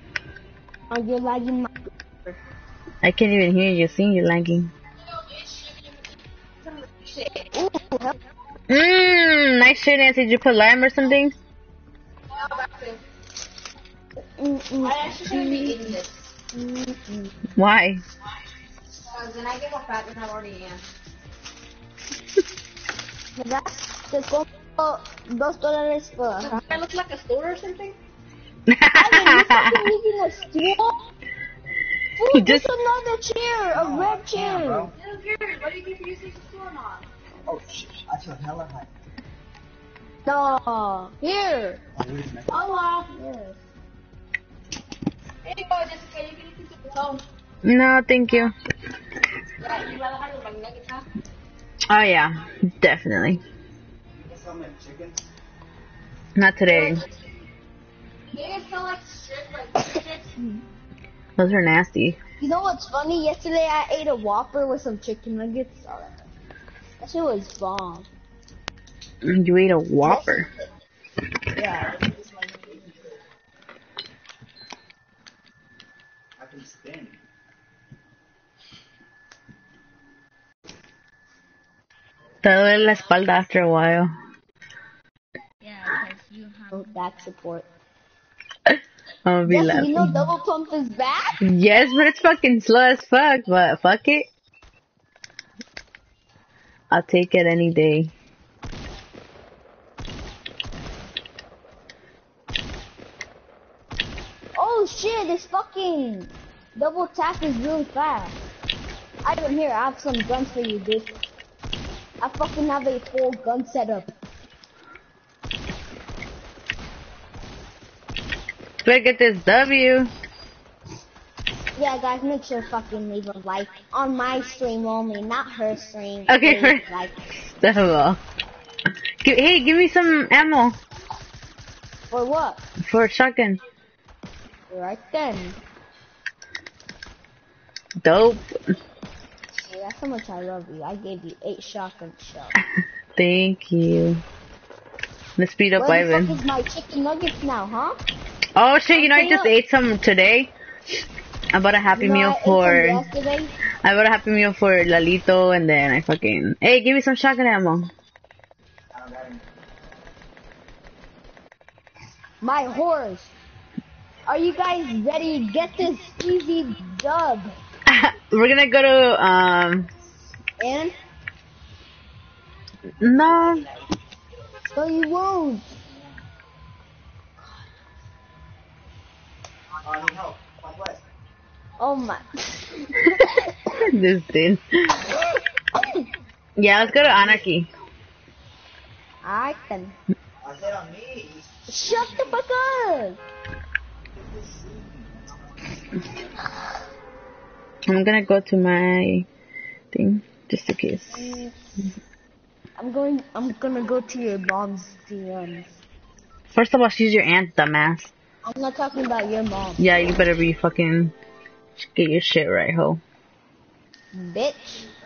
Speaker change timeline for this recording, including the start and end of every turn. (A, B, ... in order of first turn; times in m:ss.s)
0:00.9-0:02.4 A
0:03.0-0:04.7 B
0:05.3-0:05.8 C
0:06.7-0:07.5 C
0:07.5-0:08.2 A
0:08.7-0:11.3 B
0:12.3-0:13.0 C
0:14.4-0:15.9 A
0:14.8-0:16.2 C
0:16.5-0:17.3 A
0:17.5-0:18.0 B
0:19.0-0:20.8 C
0:23.4-0:26.6 A
0:26.4-0:28.0 C
0:28.7-0:29.9 B
0:28.9-0:31.0 A
0:32.2-0:34.9 A
0:32.3-0:32.6 B
0:33.7-0:35.0 D
0:35.0-0:37.0 C
0:37.4-0:38.9 D
0:40.2-0:41.8 A
0:42.0-0:42.7 D
0:42.5-0:43.1 C
0:43.1-0:43.6 A
0:45.4-0:47.2 C
0:47.6-0:48.5 B
0:49.6-0:51.0 C
0:51.9-0:53.4 B
0:54.1-0:55.2 D
0:56.4-0:57.0 B
0:58.3-1:00.3 C
1:01.4-1:02.2 B
1:02.4-1:06.2 A
1:07.0-1:08.1 A
1:09.2-1:10.5 B
1:10.0-1:10.5 A
1:11.6-1:12.0 A
1:11.9-1:12.7 D
1:16.4-1:17.2 D
1:22.4-1:24.1 B
1:25.6-1:27.6 A
1:28.7-1:30.2 B
1:29.4-1:31.4 A
1:31.4-1:34.3 B
1:36.9-1:38.1 B
1:44.5-1:48.4 A
1:49.2-1:51.2 A
1:52.2-1:54.1 A
1:58.8-2:00.1 B
2:01.8-2:07.2 A
2:06.3-2:06.8 B
2:07.4-2:08.2 B
2:09.2-2:10.8 B
2:12.1-2:12.6 A
2:12.8-2:13.6 B
2:14.7-2:15.6 A
2:18.0-2:18.4 B
2:19.6-2:22.5 A
2:23.2-2:24.2 B
2:25.4-2:26.4 B
2:25.8-2:28.0 A
2:28.6-2:30.5 B
2:28.9-2:29.5 A
2:31.5-2:33.0 B
2:31.9-2:33.5 A
2:33.8-2:37.9 B
2:38.9-2:39.5 D
2:42.4-2:43.3 A
2:44.3-2:47.6 A
2:47.9-2:49.9 B
2:50.6-2:50.9 A
2:53.0-2:53.6 B
2:54.7-2:55.7 A
2:55.9-2:56.2 D
2:59.8-3:01.0 D
3:01.8-3:03.8 A
3:03.8-3:05.1 B
3:05.8-3:06.0 A
3:06.6-3:07.7 B
3:09.2-3:10.0 A
3:10.4-3:12.4 D
3:11.7-3:13.2 A
3:14.1-3:15.3 D
3:17.9-3:19.3 B
3:19.9-3:21.4 B
3:21.1-3:21.5 A
3:22.8-3:25.7 A
3:26.5-3:28.1 B
3:28.4-3:29.8 A
3:29.8-3:31.1 B
3:31.8-3:33.0 B
3:34.1-3:34.8 A